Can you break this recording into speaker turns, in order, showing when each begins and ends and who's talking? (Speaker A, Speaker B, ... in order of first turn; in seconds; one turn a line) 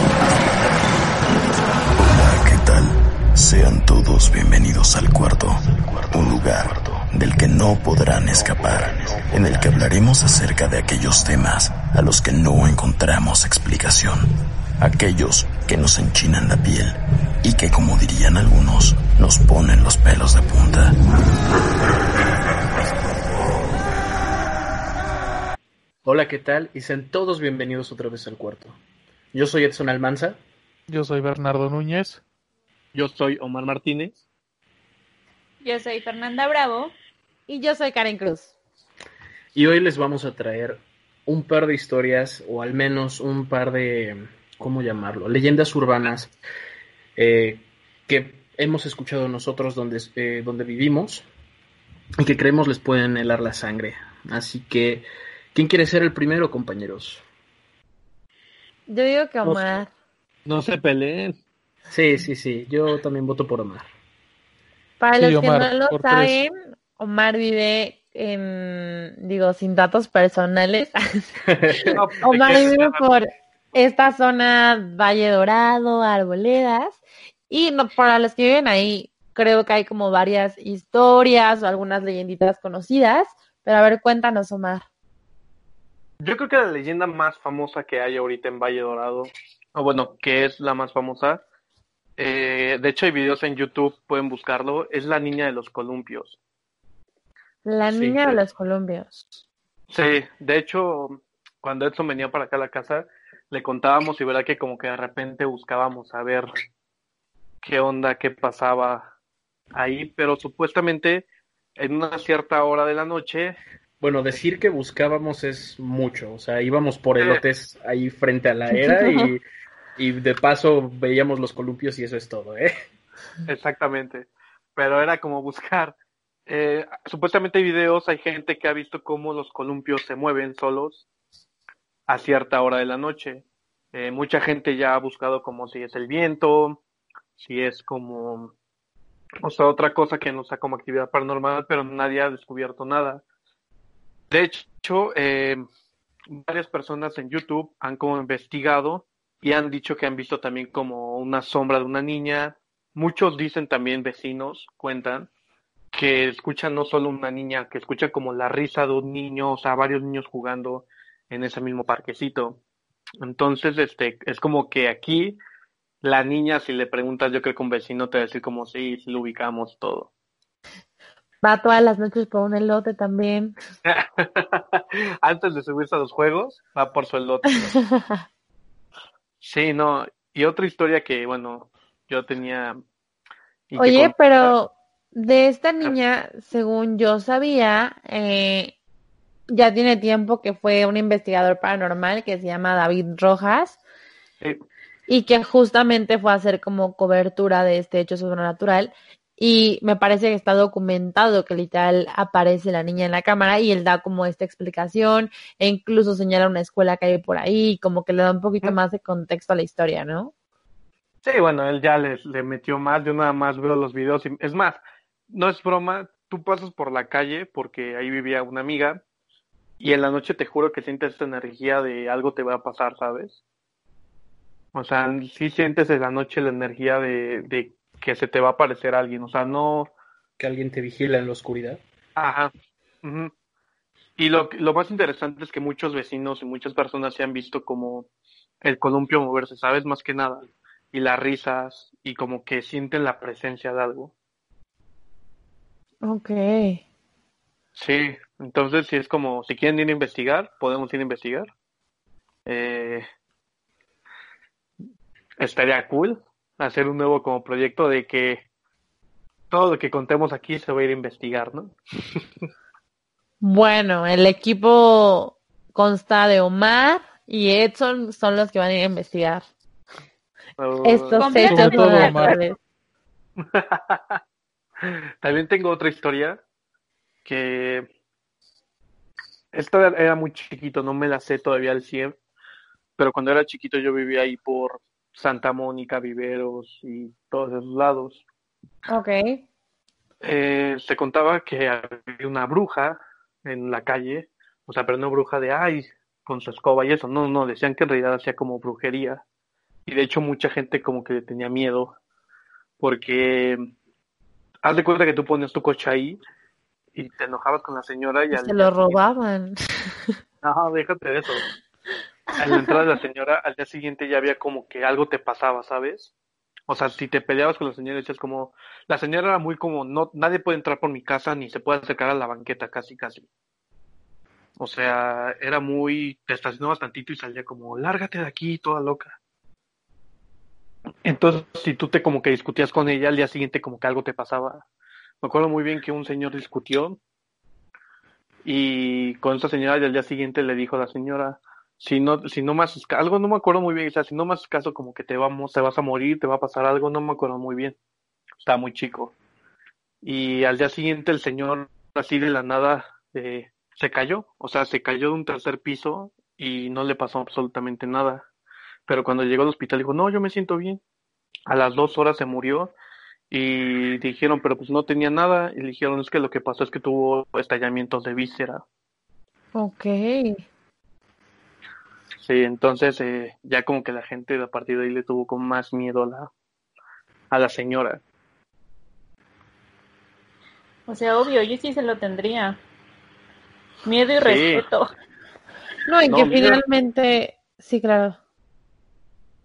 Speaker A: 0.3-0.9
Speaker A: 1.9-14.3
Speaker A: 14.8-20.9
Speaker A: 22.7-23.5
Speaker B: 26.1-28.8
Speaker B: 29.3-30.4
Speaker C: 30.9-32.2
Speaker D: 32.9-34.2
Speaker E: 35.6-36.9
Speaker F: 37.5-38.5
Speaker B: 39.5-46.3
Speaker B: 47.2-51.3
Speaker B: 52.2-57.2
Speaker F: 58.9-59.9
Speaker D: 60.5-61.4
Speaker B: 61.9-63.9
Speaker F: 65.0-71.3
Speaker C: 65.2-66.4
Speaker B: 71.5-71.8
Speaker D: 71.9-73.0
Speaker F: 72.2-84.9
Speaker D: 86.2-91.4
Speaker D: 92.2-96.4
Speaker F: 97.7-99.3
Speaker D: 97.9-98.4
Speaker D: 99.9-106.5
Speaker D: 107.6-109.1
Speaker D: 109.8-111.3
Speaker D: 111.8-113.6
Speaker B: 114.0-119.4
Speaker F: 118.8-119.3
Speaker B: 120.0-122.7
Speaker D: 123.5-126.0
Speaker D: 126.5-131.0
Speaker D: 132.1-136.8
Speaker D: 137.4-138.5
Speaker D: 139.4-143.2
Speaker D: 144.3-145.6
Speaker D: 146.3-155.3
Speaker D: 155.9-162.6
Speaker D: 163.2-165.4
Speaker D: 166.0-170.1
Speaker F: 171.4-173.6
Speaker D: 173.8-177.7
Speaker F: 177.7-178.2
Speaker D: 179.4-182.8
Speaker D: 183.7-184.6
Speaker F: 183.8-188.7
Speaker F: 189.5-193.8
Speaker F: 195.1-210.3
Speaker D: 211.2-219.0
Speaker D: 219.8-223.4
Speaker D: 224.7-229.9
Speaker B: 230.4-231.8
Speaker D: 232.2-232.5
Speaker D: 233.0-233.3
Speaker D: 234.2-238.1
Speaker D: 238.6-244.1
Speaker F: 246.0-246.8
Speaker D: 247.8-251.5
Speaker D: 252.5-253.0
Speaker D: 255.4-258.4
Speaker D: 259.5-261.8
Speaker F: 263.4-269.5
Speaker D: 270.6-271.2
Speaker F: 270.8-272.6
Speaker E: 271.2-272.4
Speaker C: 271.4-272.4
Speaker D: 273.4-274.2
Speaker D: 274.8-276.4
Speaker D: 277.2-277.9
Speaker D: 279.5-282.2
Speaker D: 283.0-288.2
Speaker F: 288.9-289.4
Speaker D: 290.2-299.2
Speaker D: 299.9-301.9
Speaker D: 302.8-303.7
Speaker D: 304.6-306.2
Speaker D: 306.9-309.0
Speaker F: 308.3-310.2
Speaker D: 310.4-311.4
Speaker D: 312.4-316.1
Speaker D: 316.7-323.3
Speaker D: 324.6-329.1
Speaker D: 331.1-334.6
Speaker D: 335.2-337.0
Speaker D: 338.4-347.8
Speaker D: 348.4-349.1
Speaker D: 350.0-358.3
Speaker D: 358.9-360.8
Speaker D: 361.5-362.7
Speaker D: 363.3-368.6
Speaker F: 369.6-370.4
Speaker D: 372.2-376.3
Speaker D: 377.3-378.0
Speaker E: 380.9-382.6
Speaker E: 383.9-384.9
Speaker D: 384.2-384.6
Speaker F: 385.9-388.2
Speaker D: 386.1-386.6